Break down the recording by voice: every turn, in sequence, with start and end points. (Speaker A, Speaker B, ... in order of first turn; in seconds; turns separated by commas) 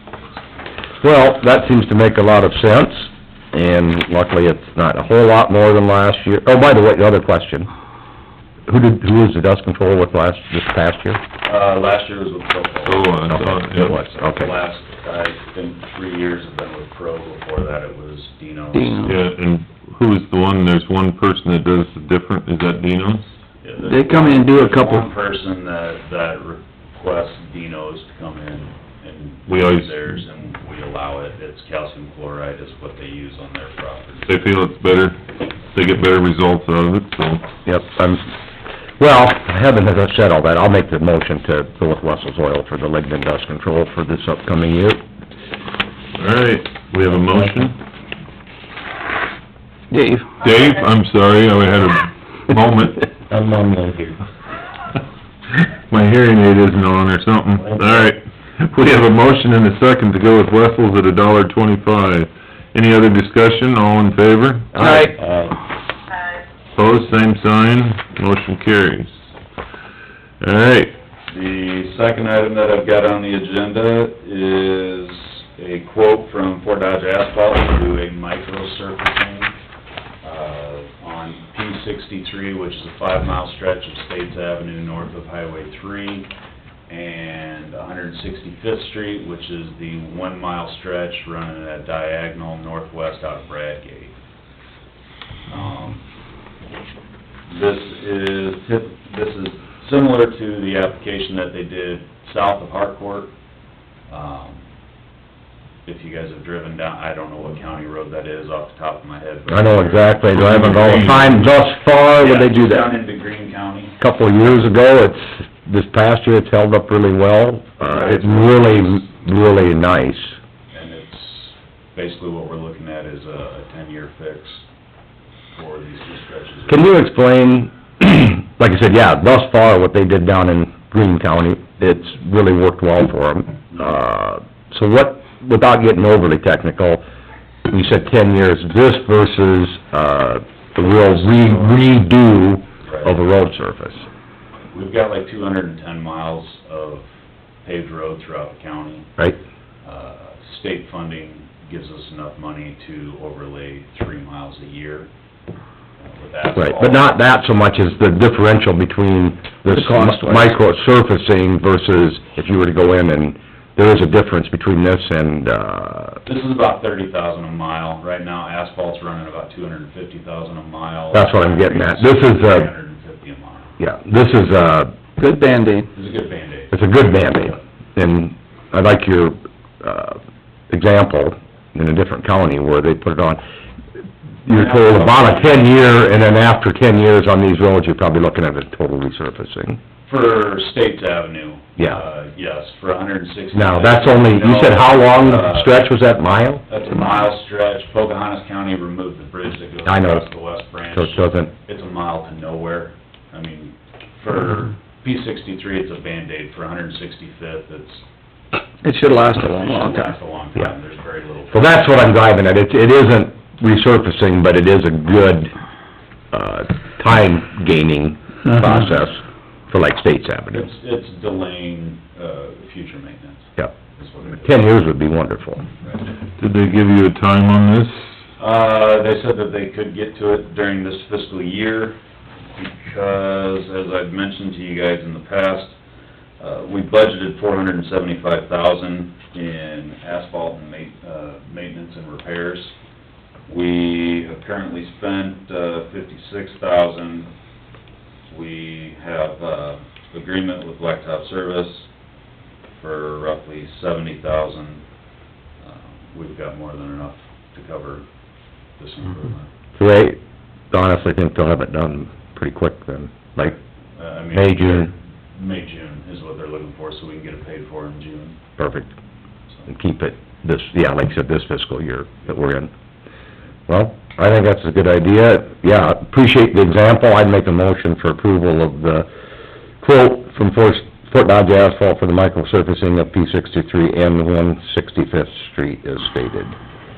Speaker A: 1.0-7.7, Speaker A: 8.7-11.2, Speaker B: 11.4-19.2, Speaker C: 12.8-14.0, Speaker A: 13.3-14.5, Speaker D: 18.7-19.2, Speaker C: 19.0-23.3, Speaker B: 23.6-34.4, Speaker D: 23.8-25.0, Speaker C: 29.5-29.9, Speaker C: 34.2-35.2, Speaker C: 35.7-37.5, Speaker A: 37.6-38.3, Speaker A: 39.0-45.0, Speaker C: 46.1-47.8, Speaker D: 49.9-50.3, Speaker C: 50.4-53.1, Speaker A: 53.3-54.2, Speaker C: 55.9-64.9, Speaker A: 57.7-58.0, Speaker A: 64.7-65.5, Speaker D: 64.8-65.2, Speaker C: 66.7-69.1, Speaker C: 70.4-70.9, Speaker B: 71.3-79.5, Speaker B: 80.2-86.3, Speaker B: 86.9-94.2, Speaker B: 95.5-96.0, Speaker B: 97.5-103.3, Speaker B: 104.1-104.6, Speaker B: 105.8-111.4, Speaker A: 109.5-112.9, Speaker C: 110.3-111.5, Speaker B: 112.2-114.0, Speaker A: 114.0-120.3, Speaker B: 117.8-119.0, Speaker B: 120.7-124.7, Speaker B: 125.5-126.9, Speaker A: 126.7-137.0, Speaker A: 137.7-144.1, Speaker B: 140.8-141.9, Speaker B: 142.8-143.2, Speaker B: 144.7-147.1, Speaker B: 147.6-149.1, Speaker B: 149.8-155.1, Speaker B: 156.0-157.1, Speaker A: 156.5-166.2, Speaker D: 159.7-160.5, Speaker B: 166.2-173.8, Speaker A: 171.1-172.7, Speaker A: 173.8-174.9, Speaker D: 175.2-175.9, Speaker B: 175.9-177.6, Speaker A: 176.7-180.2, Speaker A: 180.7-183.4, Speaker A: 184.4-189.8, Speaker B: 184.5-185.9, Speaker B: 190.1-195.8, Speaker A: 191.8-192.0, Speaker A: 193.5-196.6, Speaker B: 196.7-208.0, Speaker A: 199.8-200.3, Speaker A: 200.9-201.5, Speaker D: 208.8-210.1, Speaker B: 208.9-212.2, Speaker A: 211.5-215.5, Speaker A: 216.3-220.7, Speaker B: 220.5-224.7, Speaker A: 224.4-225.6, Speaker B: 225.8-226.1, Speaker C: 226.4-228.1, Speaker B: 228.4-232.0, Speaker B: 232.6-235.8, Speaker B: 236.4-242.7, Speaker B: 243.5-247.3, Speaker B: 248.3-251.9, Speaker B: 252.7-254.8, Speaker B: 255.6-258.1, Speaker B: 258.8-259.5, Speaker A: 259.8-260.2, Speaker A: 260.7-263.6, Speaker B: 264.0-268.4, Speaker A: 264.3-264.9, Speaker A: 268.6-268.9, Speaker A: 269.7-272.7, Speaker A: 273.7-279.1, Speaker A: 279.8-286.6